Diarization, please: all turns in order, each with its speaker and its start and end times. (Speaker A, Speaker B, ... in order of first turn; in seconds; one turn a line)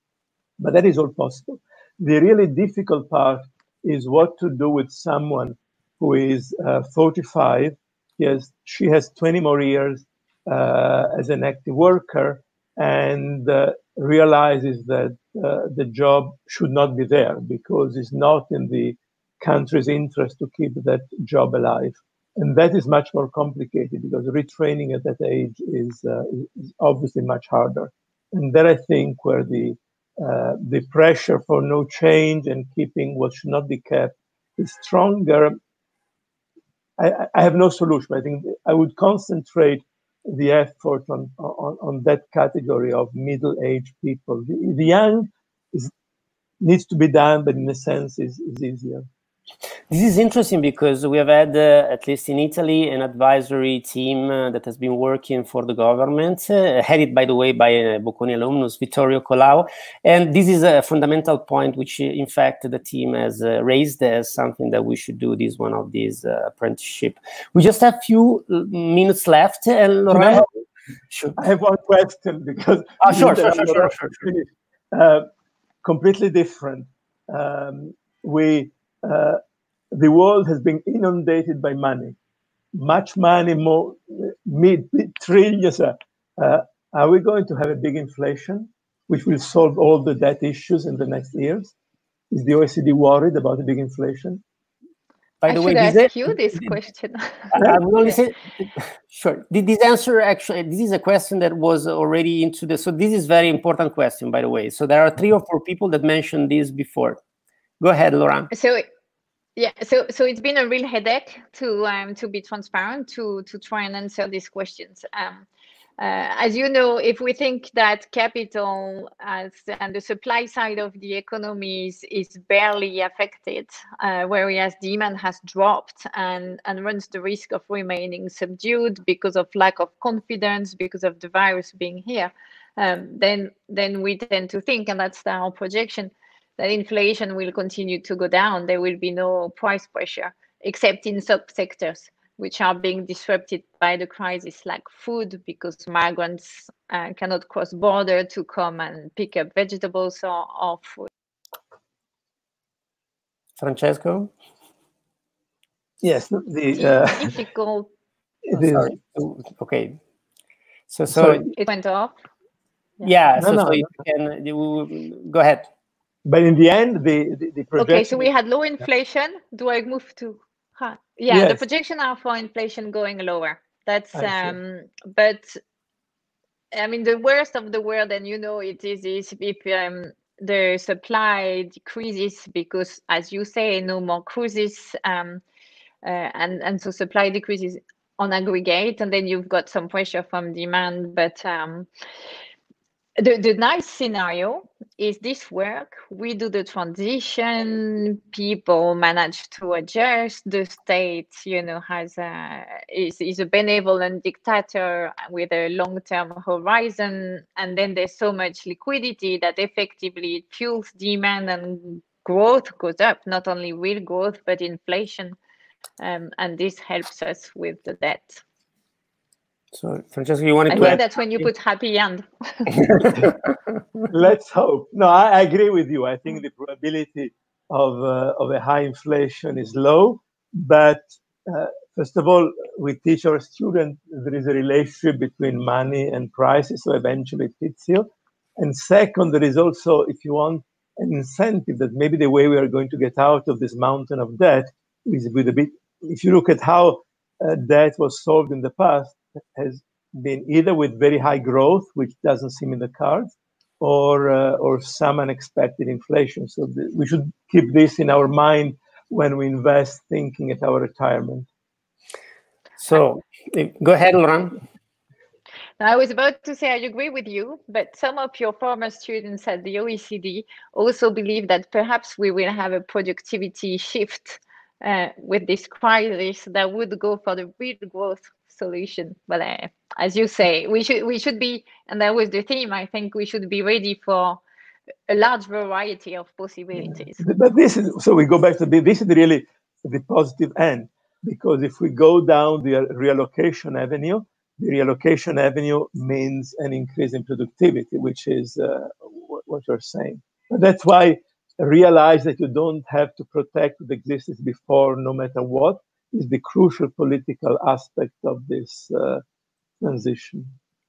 Speaker A: 0.6-35.6
Speaker A: 37.0-45.9
Speaker A: 46.6-49.0
Speaker B: 49.9-70.5
Speaker A: 70.1-70.5
Speaker B: 71.1-71.4
Speaker A: 71.4-75.3
Speaker B: 73.0-74.2
Speaker A: 75.8-79.4
Speaker A: 79.9-82.2
Speaker A: 82.7-91.7
Speaker A: 92.3-94.4
Speaker B: 95.4-96.1
Speaker C: 95.5-97.5
Speaker B: 97.5-107.2
Speaker B: 107.8-108.5
Speaker C: 108.5-108.8
Speaker C: 109.5-115.5
Speaker C: 116.0-151.1
Speaker B: 153.6-154.3
Speaker A: 156.0-157.3
Speaker C: 156.7-157.9
Speaker A: 158.4-158.9
Speaker B: 158.5-160.0
Speaker B: 160.9-161.5
Speaker A: 161.1-161.5
Speaker C: 161.6-162.1
Speaker B: 163.0-165.7
Speaker A: 163.4-163.9
Speaker A: 166.2-168.3
Speaker C: 167.8-175.6
Speaker A: 171.3-171.6
Speaker A: 174.1-174.6
Speaker C: 176.7-185.4
Speaker C: 186.0-191.9
Speaker C: 193.2-215.3
Speaker C: 216.0-218.4
Speaker B: 219.7-221.2
Speaker C: 220.7-223.1
Speaker A: 224.1-261.5
Speaker B: 262.8-264.6
Speaker C: 265.8-284.4
Speaker C: 285.1-287.2
Speaker A: 286.8-309.2
Speaker A: 309.8-310.5